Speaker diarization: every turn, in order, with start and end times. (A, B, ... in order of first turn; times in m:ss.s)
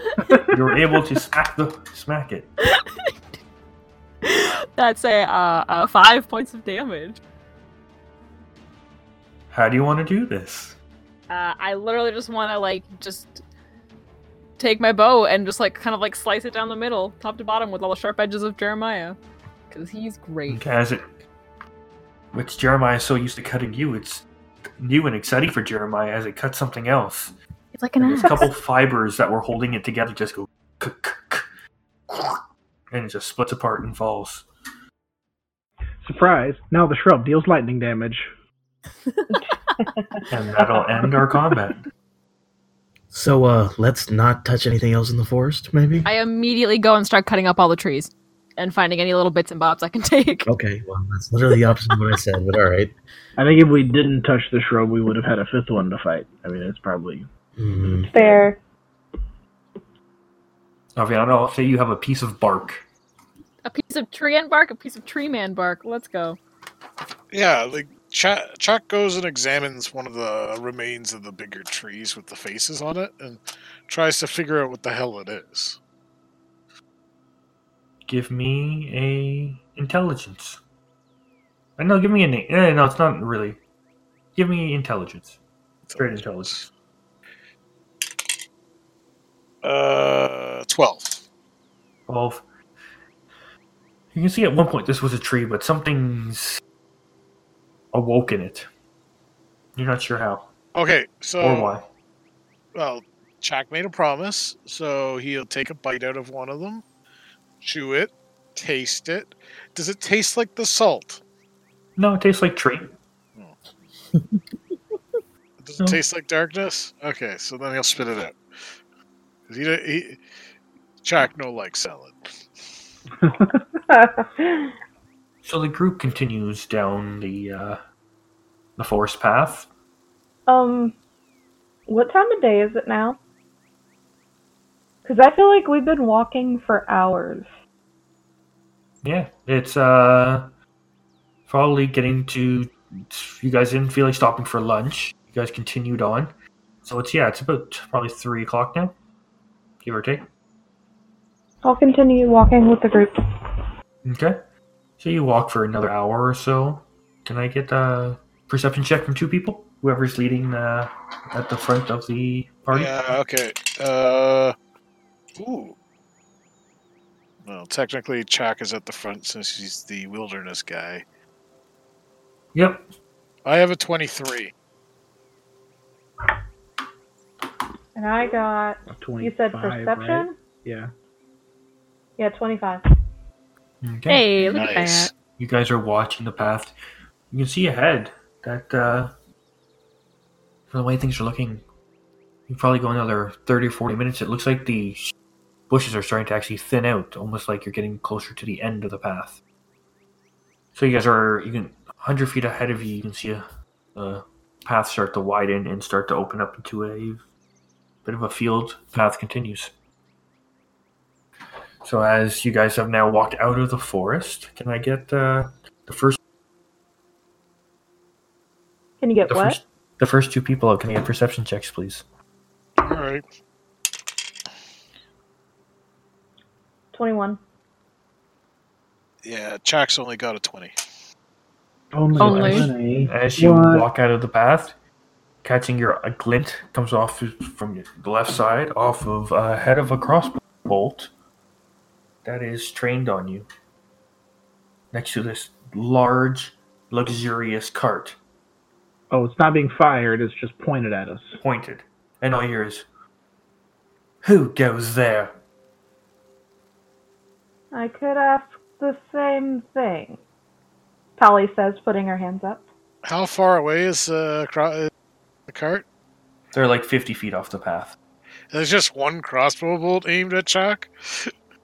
0:00.4-0:02.5 A
0:02.6-0:03.1 B
0:04.2-0:07.2 B
0:09.5-0:10.8 A
0:11.3-0:13.4 B
0:14.6-0:19.2 B
0:19.7-0:20.7 B
0:20.5-0:21.2 A
0:22.3-0:24.3 A
0:24.8-0:27.3 A
0:27.7-0:28.5 B
0:28.0-0:31.5 A
0:32.1-0:34.5 A
0:36.0-0:38.3 C
0:39.3-0:40.3 D
0:40.3-0:41.8 A
0:43.1-0:46.1 E
0:46.0-0:50.5 B
0:50.5-0:52.9 E
0:53.4-0:57.3 C
0:57.6-0:58.1 E
0:58.1-0:58.6 D
1:01.0-1:02.8 A
1:03.6-1:06.4 B
1:07.3-1:15.8 F
1:18.1-1:20.6 A
1:21.8-1:23.6 A
1:24.4-1:25.4 A
1:25.9-1:26.7 F
1:26.0-1:26.6 A
1:29.6-1:31.3 F
1:32.1-1:32.4 A
1:34.1-1:36.6 A
1:37.9-1:38.7 A
1:39.8-1:40.5 A
1:40.8-1:41.8 F
1:41.4-1:41.9 A
1:42.8-1:46.8 F
1:47.6-1:51.2 F
1:52.0-1:52.9 A
1:55.6-1:58.4 F
1:59.5-2:00.2 F
2:01.0-2:02.7 F
2:03.2-2:03.6 C
2:03.9-2:04.8 D
2:05.4-2:07.8 A
2:08.8-2:09.7 A
2:10.5-2:11.0 D
2:11.9-2:13.2 D
2:15.0-2:17.5 D
2:19.0-2:20.5 A
2:21.5-2:29.0 A
2:29.8-2:30.3 A
2:31.6-2:33.6 D
2:34.0-2:34.4 A
2:35.0-2:43.1 A
2:42.7-2:44.6 F
2:45.4-2:45.8 F
2:47.4-2:51.0 F
2:52.5-2:52.8 A
2:53.4-2:54.5 F
2:57.9-3:00.4 D
2:58.9-3:00.9 C
3:02.2-3:02.8 D
3:03.8-3:04.3 A
3:04.1-3:05.1 B
3:04.4-3:05.1 F
3:05.3-3:06.8 A
3:07.3-3:09.1 A
3:10.7-3:11.6 A
3:12.5-3:15.1 A
3:15.7-3:19.4 A
3:20.8-3:27.2 A
3:28.0-3:29.7 A
3:31.8-3:36.2 A
3:39.0-3:39.6 D
3:39.3-3:42.0 A
3:42.8-3:43.2 F
3:46.9-3:47.4 D
3:49.2-3:50.8 F
3:51.9-3:53.9 C
3:52.2-3:52.7 B
3:52.2-3:54.8 A
3:55.4-4:01.1 A
4:02.2-4:03.5 A
4:04.9-4:08.2 A
4:09.1-4:11.4 C
4:11.4-4:12.9 A
4:14.2-4:15.4 A
4:17.7-4:20.2 D
4:21.2-4:22.6 D
4:23.0-4:24.9 F
4:25.5-4:25.8 F
4:26.5-4:28.0 A
4:28.5-4:31.3 F